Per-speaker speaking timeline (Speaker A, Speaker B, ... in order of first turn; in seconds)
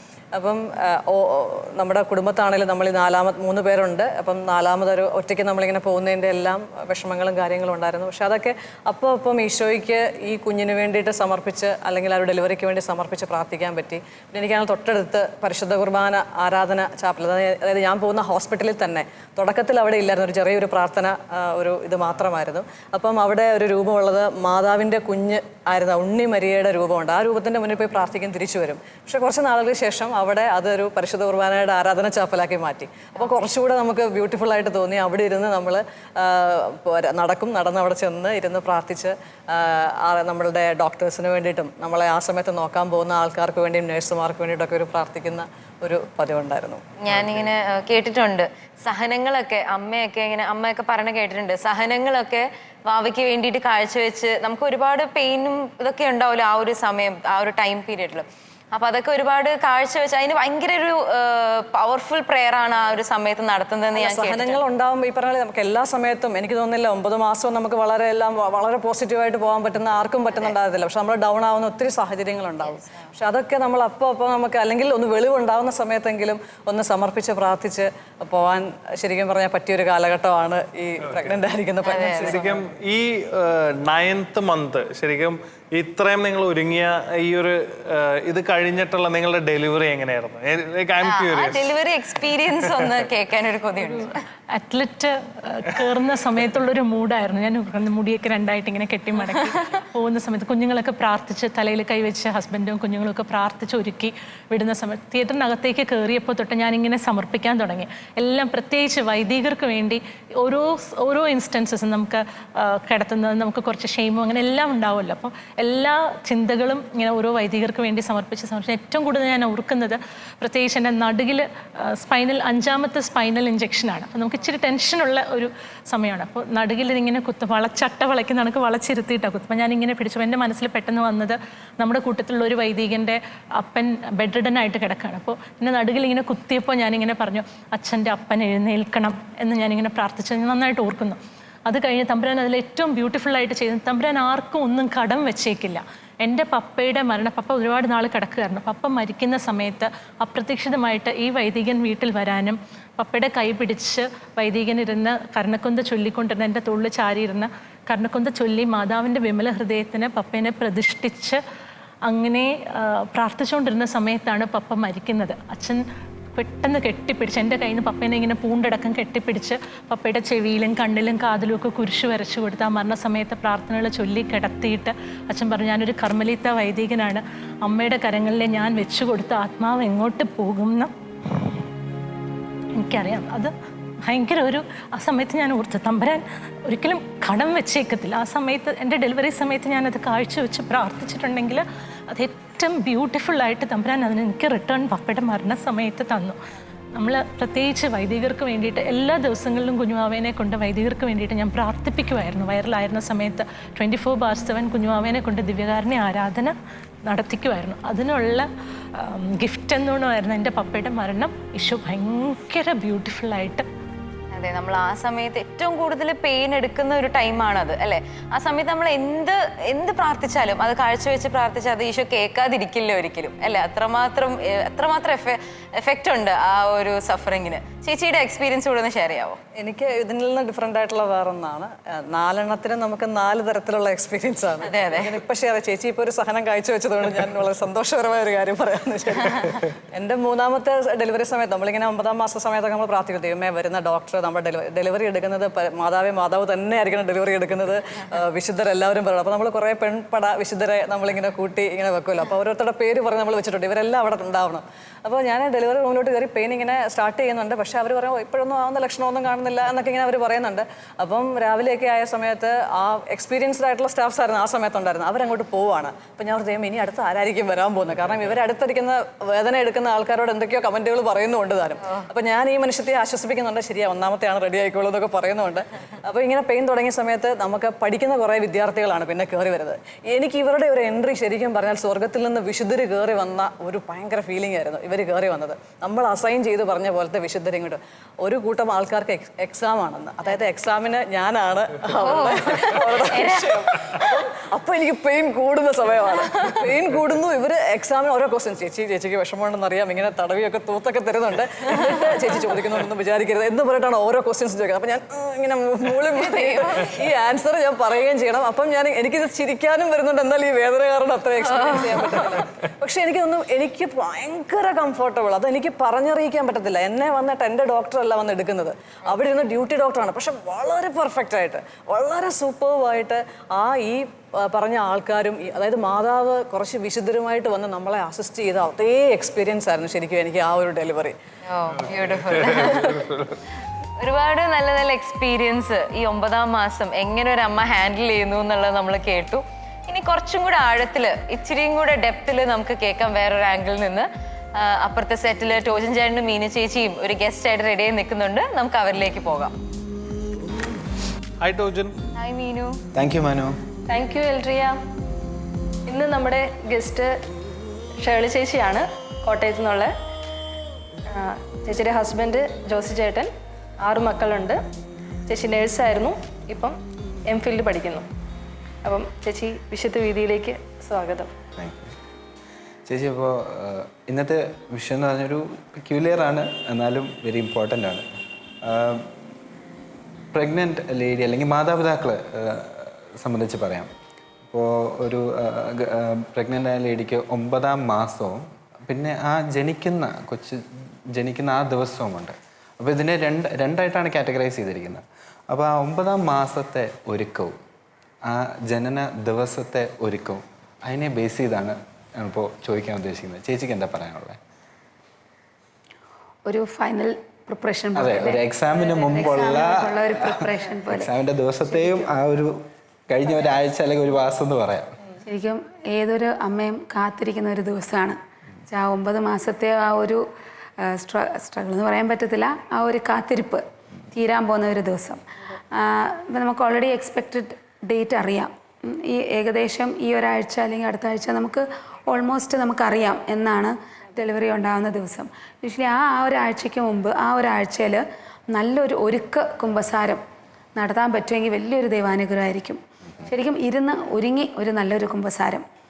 Speaker A: 0.3-46.8, 63.9-82.6, 229.6-331.2
Speaker B: 47.0-64.6, 81.8-82.4, 91.0-94.2, 99.2-99.8, 214.3-229.4, 234.6-235.2, 292.0-293.7, 306.1-307.0, 311.5-312.2, 331.5-333.0, 334.0-349.6, 352.2-352.8
Speaker C: 81.0-81.4, 82.2-91.7, 92.7-93.0, 332.3-333.2, 351.4-351.9
Speaker D: 94.5-161.4, 162.1-165.8, 166.4-181.6, 182.8-183.5, 184.1-196.4, 196.9-213.7
Speaker E: 352.9-353.6, 371.6-371.9, 372.9-378.1, 378.6-379.1, 380.3-383.9, 384.5-397.6, 398.2-404.4, 407.9-415.0
Speaker F: 353.9-354.8, 355.9-357.1, 358.0-359.9, 361.1-363.3, 363.8-364.6, 365.3-366.8, 367.3-368.1, 368.8-371.3
Speaker G: 406.5-408.4, 409.1-411.1, 411.7-412.1, 415.2-418.2, 418.7-420.3, 420.8-440.2, 440.8-445.7